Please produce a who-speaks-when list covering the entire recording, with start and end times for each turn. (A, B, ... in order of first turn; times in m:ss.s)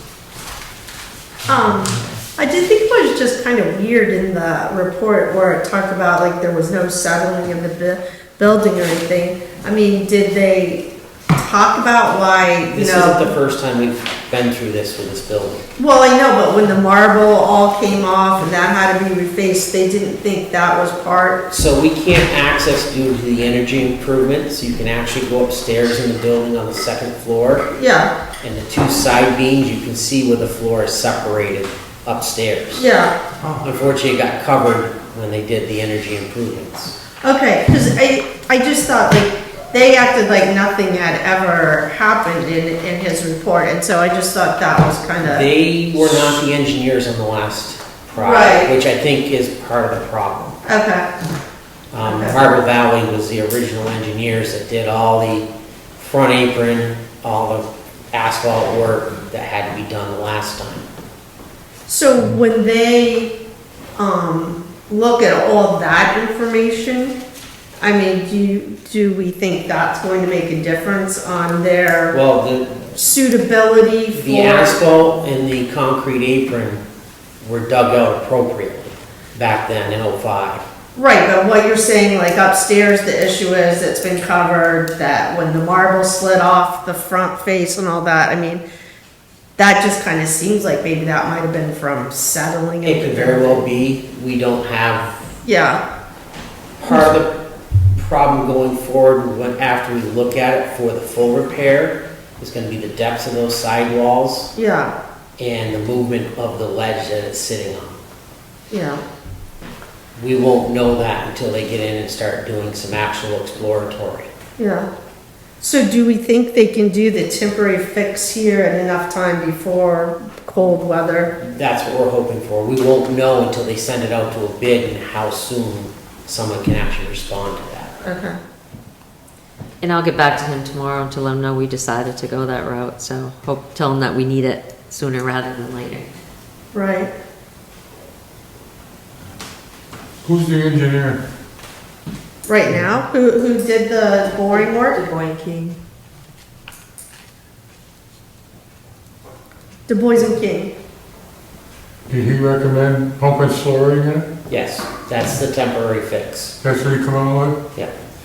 0:01.5-0:13.3 A
0:12.7-0:15.7 B
0:15.8-0:21.5 A
0:21.5-0:27.7 B
0:27.7-0:28.1 A
0:28.4-0:32.9 B
0:32.8-0:33.4 A
0:33.4-0:37.0 B
0:37.2-0:45.5 A
0:45.2-0:50.6 B
0:48.2-0:48.7 A
0:50.6-0:51.1 A
0:51.9-1:00.9 B
0:52.0-0:52.4 A
1:01.9-1:03.4 A
1:04.0-1:07.2 A
1:07.8-1:12.2 A
1:12.1-1:13.0 B
1:13.0-1:14.9 A
1:14.2-1:16.8 B
1:17.4-1:20.6 B
1:21.0-1:28.6 A
1:29.6-1:33.6 A
1:32.8-1:35.2 B
1:35.4-1:35.8 A
1:36.8-1:37.4 B
1:38.0-1:44.5 B
1:44.6-1:45.0 A
1:45.4-1:48.0 B
1:48.7-1:49.0 A
1:50.2-1:54.3 B
1:54.6-1:54.9 A
1:55.6-2:01.3 A
2:01.4-2:08.0 B
2:08.0-2:08.4 A
2:09.8-2:16.1 C
2:16.7-2:17.1 A
2:20.2-2:21.2 D
2:22.5-2:25.0 A
2:24.5-2:25.8 C
2:29.9-2:30.7 A
2:32.1-2:34.3 D
2:34.5-2:36.6 B
2:36.6-2:37.6 D